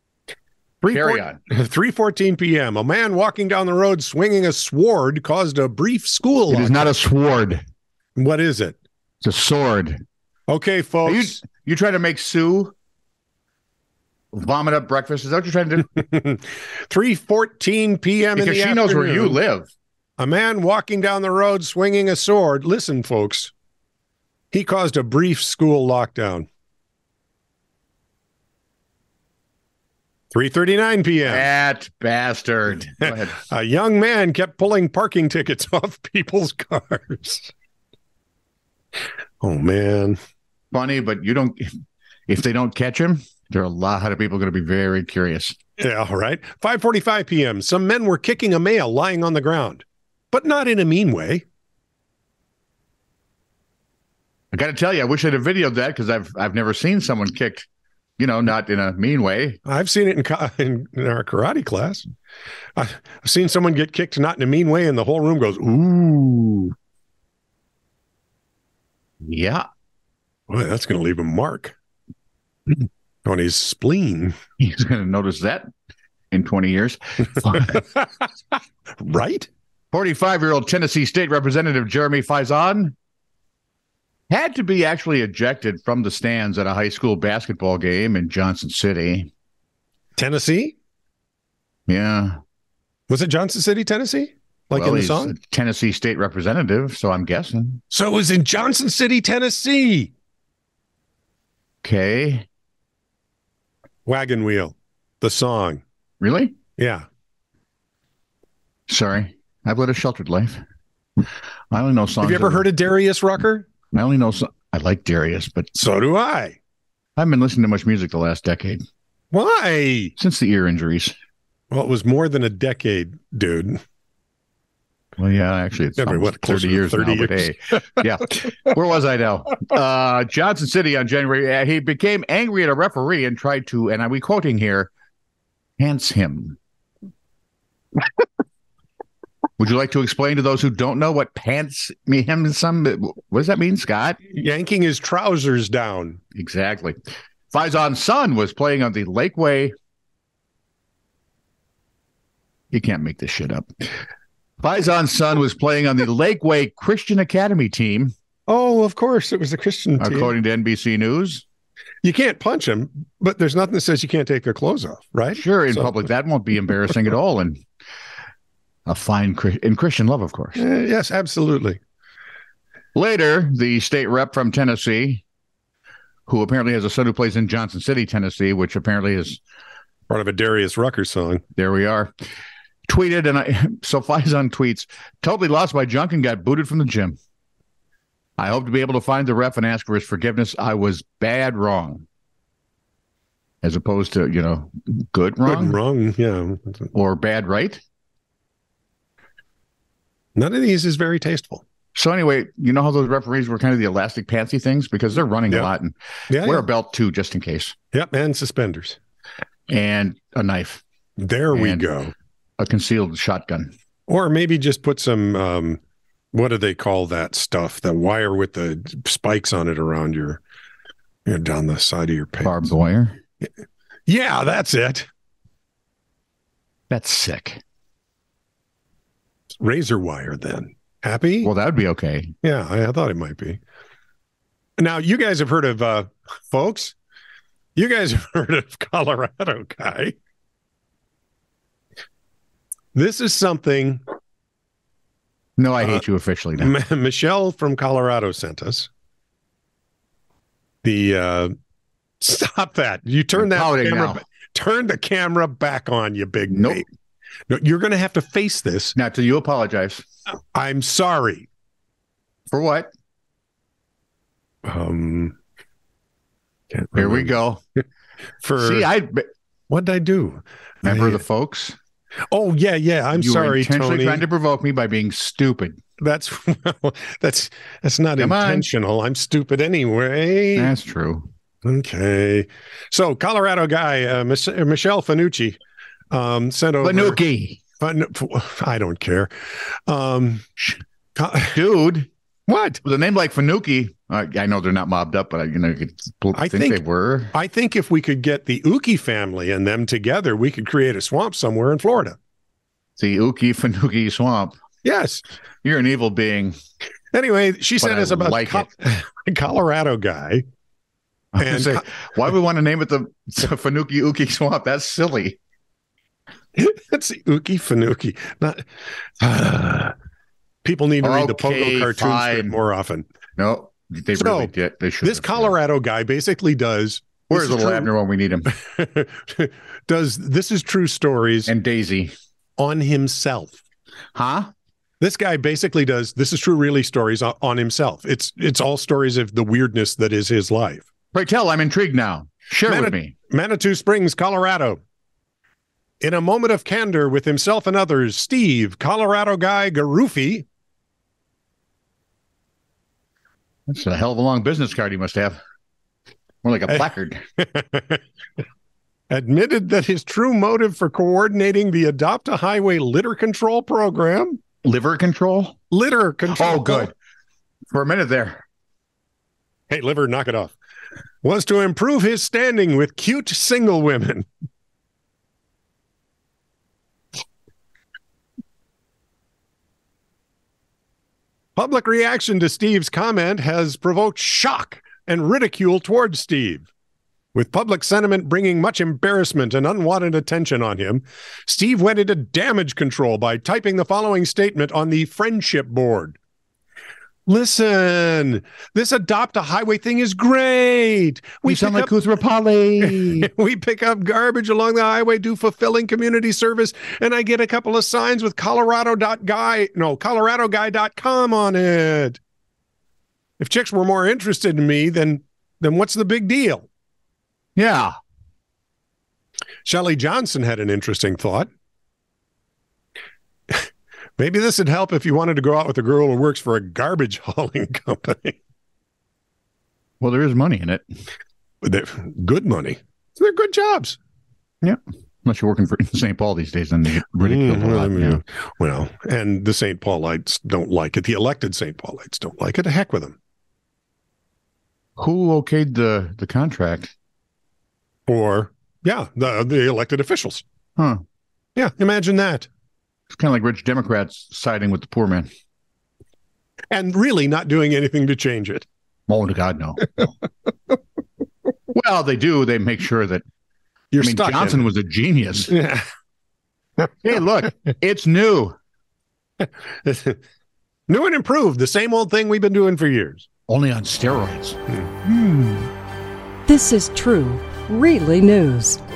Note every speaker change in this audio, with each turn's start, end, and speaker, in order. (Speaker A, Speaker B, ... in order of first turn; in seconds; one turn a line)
Speaker A: 0.8-6.9
Speaker B: 0.9-1.4
Speaker B: 6.5-7.6
Speaker A: 8.2-8.8
Speaker B: 9.2-10.0
Speaker A: 10.5-11.4
Speaker B: 11.1-12.7
Speaker B: 14.3-15.9
Speaker A: 15.9-19.4
Speaker B: 18.4-19.7
Speaker A: 20.2-23.5
Speaker A: 24.5-26.5
Speaker A: 30.3-31.5
Speaker B: 31.3-33.5
Speaker A: 33.0-37.5
Speaker A: 39.4-40.2
Speaker B: 40.7-41.7
Speaker B: 42.3-45.6
Speaker A: 45.8-51.4
Speaker B: 54.5-57.7
Speaker B: 58.2-59.6
Speaker A: 59.7-62.1
Speaker A: 62.8-66.7
Speaker B: 69.2-69.7
Speaker A: 70.5-71.8
Speaker A: 72.7-74.3
Speaker B: 74.6-75.7
Speaker B: 76.3-77.8
Speaker A: 79.0-79.5
Speaker B: 79.9-83.0
Speaker B: 84.3-89.3
Speaker A: 90.2-90.8
Speaker B: 91.9-92.4
Speaker A: 93.1-95.3
Speaker B: 94.7-97.8
Speaker A: 97.9-100.1
Speaker B: 101.8-102.5
Speaker A: 104.1-105.8
Speaker B: 106.2-106.5
Speaker A: 106.8-107.1
Speaker B: 108.9-110.6
Speaker B: 111.7-112.7
Speaker A: 112.2-113.7
Speaker B: 113.9-115.7
Speaker A: 115.8-116.6
Speaker B: 117.2-118.8
Speaker A: 119.3-120.2
Speaker B: 120.2-121.1
Speaker A: 121.7-123.8
Speaker B: 125.2-134.9
Speaker A: 126.0-127.8
Speaker B: 135.8-136.6
Speaker B: 139.6-144.2
Speaker A: 144.3-146.2
Speaker B: 146.3-147.0
Speaker B: 147.5-149.7
Speaker B: 152.7-153.7
Speaker B: 154.6-158.1
Speaker A: 158.5-160.3
Speaker B: 160.0-161.4
Speaker A: 162.0-166.0
Speaker B: 165.3-167.6
Speaker B: 168.9-170.6
Speaker A: 170.6-171.8
Speaker B: 172.9-175.2
Speaker B: 176.3-179.4
Speaker A: 180.1-181.4
Speaker B: 181.6-182.1
Speaker B: 182.9-187.2
Speaker B: 188.4-192.1
Speaker B: 193.6-195.8
Speaker A: 195.4-196.9
Speaker B: 196.9-197.8
Speaker A: 200.4-201.6
Speaker B: 201.9-207.8
Speaker A: 206.3-206.6
Speaker A: 207.9-209.0
Speaker B: 209.7-210.8
Speaker A: 211.2-212.1
Speaker B: 211.5-211.8
Speaker B: 212.6-213.7
Speaker A: 214.1-215.8
Speaker A: 216.3-220.4
Speaker A: 221.3-222.6
Speaker B: 222.4-223.2
Speaker A: 224.1-225.1
Speaker B: 226.9-227.6
Speaker A: 229.6-231.5
Speaker B: 231.4-232.3
Speaker A: 232.4-233.6
Speaker A: 234.8-236.9
Speaker A: 237.8-240.2
Speaker A: 242.9-244.0
Speaker B: 245.6-246.7
Speaker A: 246.6-248.9
Speaker A: 250.8-251.5
Speaker A: 252.2-256.9
Speaker B: 253.4-254.2
Speaker B: 256.5-256.8
Speaker A: 257.5-258.9
Speaker B: 258.9-260.0
Speaker A: 260.5-261.5
Speaker B: 262.5-262.9
Speaker A: 264.7-265.4
Speaker A: 266.7-267.3
Speaker B: 266.9-267.6
Speaker A: 268.4-268.9
Speaker B: 268.6-269.3
Speaker A: 269.7-271.2
Speaker B: 270.8-271.8
Speaker A: 272.3-274.2
Speaker B: 273.1-275.8
Speaker A: 276.0-280.7
Speaker B: 278.2-278.7
Speaker B: 280.6-281.3
Speaker A: 281.6-285.6
Speaker A: 286.1-287.2
Speaker B: 286.8-287.6
Speaker A: 287.8-289.3
Speaker A: 289.9-290.4
Speaker A: 291.2-291.6
Speaker B: 291.5-292.1
Speaker A: 292.5-292.8
Speaker B: 292.8-297.3
Speaker A: 296.3-296.8
Speaker A: 297.3-302.2
Speaker B: 303.0-304.6
Speaker A: 304.8-305.2
Speaker B: 305.6-306.6
Speaker A: 307.1-310.4
Speaker B: 307.8-308.7
Speaker B: 311.3-315.4
Speaker A: 311.4-311.8
Speaker A: 316.6-318.7
Speaker A: 319.2-319.9
Speaker A: 320.6-323.1
Speaker B: 321.0-322.6
Speaker B: 323.4-325.6
Speaker A: 324.2-327.9
Speaker B: 327.3-328.5
Speaker A: 328.5-331.5
Speaker B: 331.5-332.1
Speaker A: 332.6-333.6
Speaker B: 334.1-334.5
Speaker A: 335.0-340.9
Speaker B: 341.1-343.1
Speaker A: 342.7-344.8
Speaker A: 346.0-350.5
Speaker B: 353.7-355.4
Speaker B: 356.4-357.2
Speaker A: 357.4-358.0
Speaker A: 359.1-364.4
Speaker B: 364.6-365.6
Speaker A: 365.7-366.9
Speaker B: 366.3-366.9
Speaker B: 367.7-368.4
Speaker A: 369.7-370.5
Speaker A: 371.2-374.3
Speaker A: 381.6-386.7
Speaker A: 387.3-396.2
Speaker A: 397.3-401.9
Speaker B: 401.4-403.3
Speaker A: 402.8-412.2
Speaker A: 413.4-416.7
Speaker B: 417.6-417.9
Speaker A: 419.6-421.5
Speaker A: 424.2-428.4
Speaker B: 430.0-430.8
Speaker A: 431.6-434.0
Speaker B: 434.6-438.2
Speaker A: 437.2-443.2
Speaker B: 445.0-446.9
Speaker A: 448.1-450.4
Speaker A: 451.6-452.5
Speaker B: 453.1-455.3
Speaker A: 456.7-458.6
Speaker B: 459.1-460.0
Speaker B: 461.7-463.2
Speaker A: 463.9-464.7
Speaker B: 464.0-465.5
Speaker A: 465.5-465.9
Speaker B: 467.0-468.6
Speaker A: 469.4-470.2
Speaker A: 470.9-473.2
Speaker B: 473.5-474.6
Speaker A: 474.7-475.7
Speaker C: 476.5-478.8